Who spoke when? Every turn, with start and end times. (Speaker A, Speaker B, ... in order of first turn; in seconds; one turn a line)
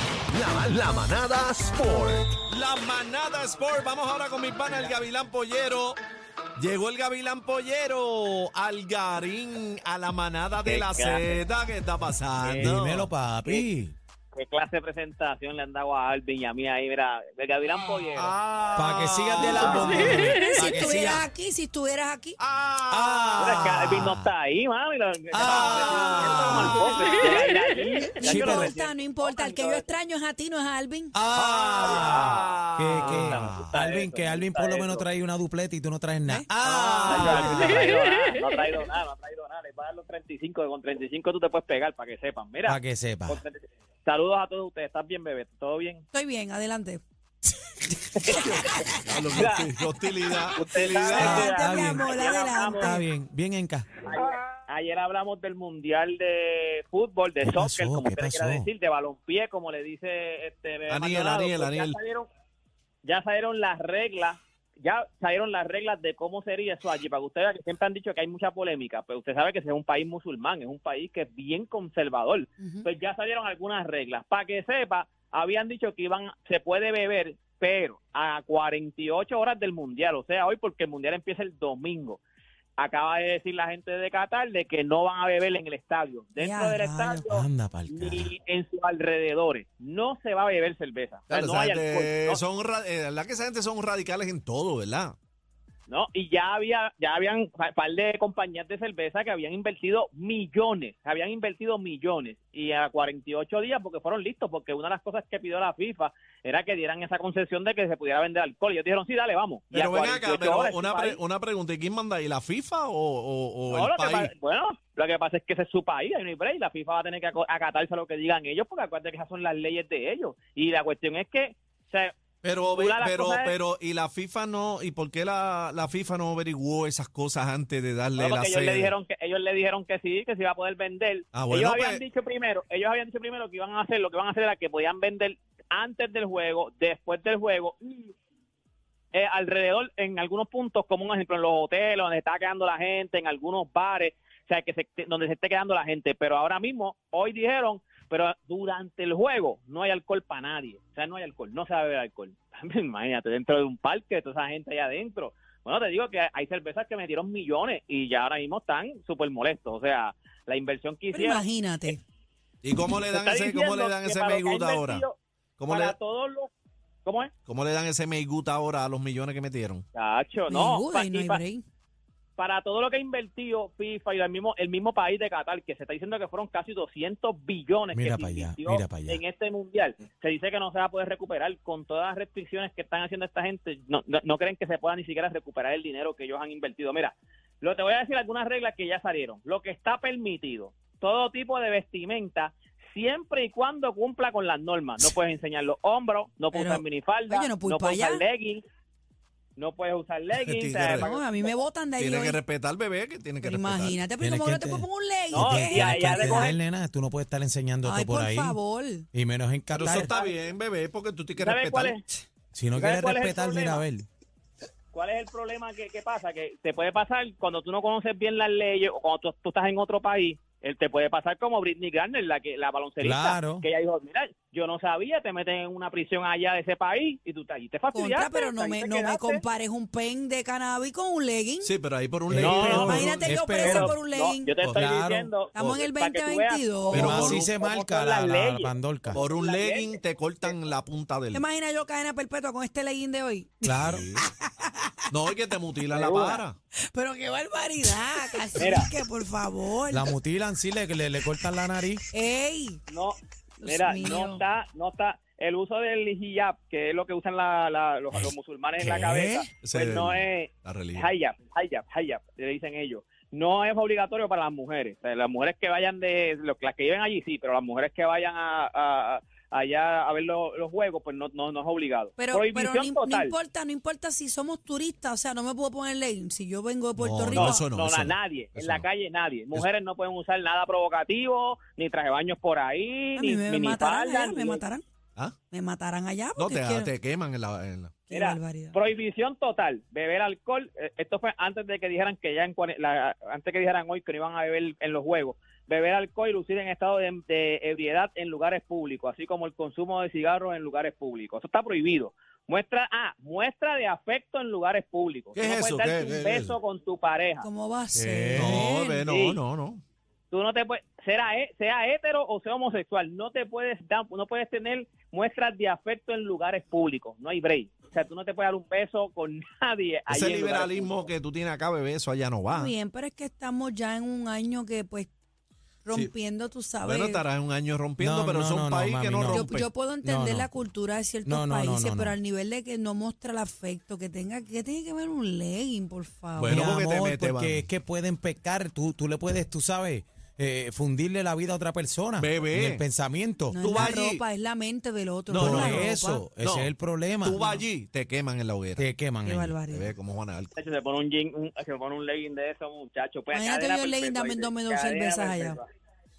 Speaker A: 0.3-2.4
Speaker B: 2.5-6.0
Speaker B: 6.6-13.1
Speaker C: 10.6-11.4
Speaker C: 12.4-12.7
Speaker D: 12.6-13.9
Speaker C: 14.3-18.3
Speaker B: 18.1-20.3
Speaker D: 18.7-21.3
Speaker C: 19.6-20.3
Speaker E: 20.3-22.4
Speaker B: 22.4-23.5
Speaker D: 22.9-24.3
Speaker C: 23.4-29.9
Speaker D: 25.3-26.8
Speaker B: 25.4-27.0
Speaker E: 26.9-27.3
Speaker E: 28.1-31.1
Speaker D: 28.2-28.7
Speaker D: 31.1-37.7
Speaker B: 31.4-33.7
Speaker C: 31.8-32.4
Speaker C: 33.0-35.0
Speaker B: 36.6-37.8
Speaker C: 37.0-46.0
Speaker D: 42.7-43.4
Speaker E: 46.1-47.0
Speaker C: 48.2-48.7
Speaker E: 48.3-49.4
Speaker B: 49.0-51.5
Speaker C: 49.3-49.7
Speaker C: 50.5-53.0
Speaker E: 51.0-53.0
Speaker D: 51.2-52.1
Speaker D: 52.8-53.9
Speaker C: 54.0-62.3
Speaker D: 57.4-58.7
Speaker B: 60.9-62.0
Speaker C: 63.0-82.2
Speaker E: 72.6-72.9
Speaker C: 82.8-92.4
Speaker E: 86.4-87.4
Speaker D: 87.3-88.3
Speaker B: 91.3-95.1
Speaker C: 95.9-111.2
Speaker B: 109.7-114.3
Speaker C: 113.7-122.1
Speaker B: 122.4-128.9
Speaker C: 122.7-123.5
Speaker C: 128.2-138.1
Speaker B: 131.3-132.0
Speaker C: 139.1-161.9
Speaker E: 161.1-162.0
Speaker B: 162.6-165.0
Speaker C: 163.1-166.5
Speaker B: 165.6-165.9
Speaker C: 167.0-167.3
Speaker B: 167.5-169.8
Speaker C: 169.9-171.4
Speaker E: 170.5-171.6
Speaker C: 172.4-198.6
Speaker D: 177.9-179.2
Speaker E: 196.5-198.2
Speaker C: 199.6-201.5
Speaker B: 200.4-201.1
Speaker E: 200.8-202.4
Speaker B: 202.0-204.0
Speaker E: 203.4-206.4
Speaker D: 204.2-208.6
Speaker C: 205.3-206.6
Speaker E: 207.8-209.1
Speaker D: 209.1-210.2
Speaker B: 209.7-211.9
Speaker C: 209.8-210.3
Speaker C: 211.4-212.2
Speaker D: 212.5-214.1
Speaker C: 212.8-213.8
Speaker C: 214.9-229.4
Speaker D: 223.0-223.7
Speaker E: 227.9-231.7
Speaker B: 231.6-233.3
Speaker D: 232.3-234.0
Speaker C: 232.4-239.9
Speaker E: 232.8-234.6
Speaker D: 234.7-235.6
Speaker E: 235.5-237.2
Speaker B: 236.9-237.5
Speaker D: 236.9-239.2
Speaker B: 239.1-241.4
Speaker E: 241.3-244.9
Speaker D: 243.6-244.1
Speaker B: 243.8-244.2
Speaker B: 245.1-246.6
Speaker C: 245.9-246.4
Speaker E: 246.8-250.1
Speaker C: 248.6-248.9
Speaker D: 249.9-252.0
Speaker E: 252.1-252.8
Speaker C: 252.9-273.3
Speaker E: 253.6-254.4
Speaker D: 258.8-259.5
Speaker B: 259.6-261.1
Speaker E: 272.2-277.6
Speaker B: 277.0-278.9
Speaker C: 277.3-284.6
Speaker E: 283.1-284.8
Speaker E: 285.5-286.9
Speaker B: 286.4-287.9
Speaker E: 288.1-288.8
Speaker C: 288.1-307.5
Speaker B: 305.3-306.6
Speaker E: 307.4-309.0
Speaker D: 307.9-308.7
Speaker B: 308.3-309.8
Speaker C: 309.1-309.4
Speaker C: 310.3-320.9
Speaker B: 320.1-322.7
Speaker E: 322.5-325.1
Speaker E: 325.8-327.2
Speaker B: 326.8-329.5
Speaker D: 328.0-330.5
Speaker E: 329.3-336.7
Speaker D: 331.2-332.2
Speaker B: 336.4-337.6
Speaker D: 336.5-343.8
Speaker B: 342.2-342.8
Speaker E: 343.5-346.2
Speaker B: 343.6-344.2
Speaker B: 345.3-346.7
Speaker D: 345.4-347.4
Speaker B: 347.2-348.9
Speaker E: 347.4-347.6
Speaker D: 348.8-349.6
Speaker E: 349.2-349.9
Speaker B: 349.7-350.5
Speaker C: 350.6-355.6
Speaker E: 353.3-355.6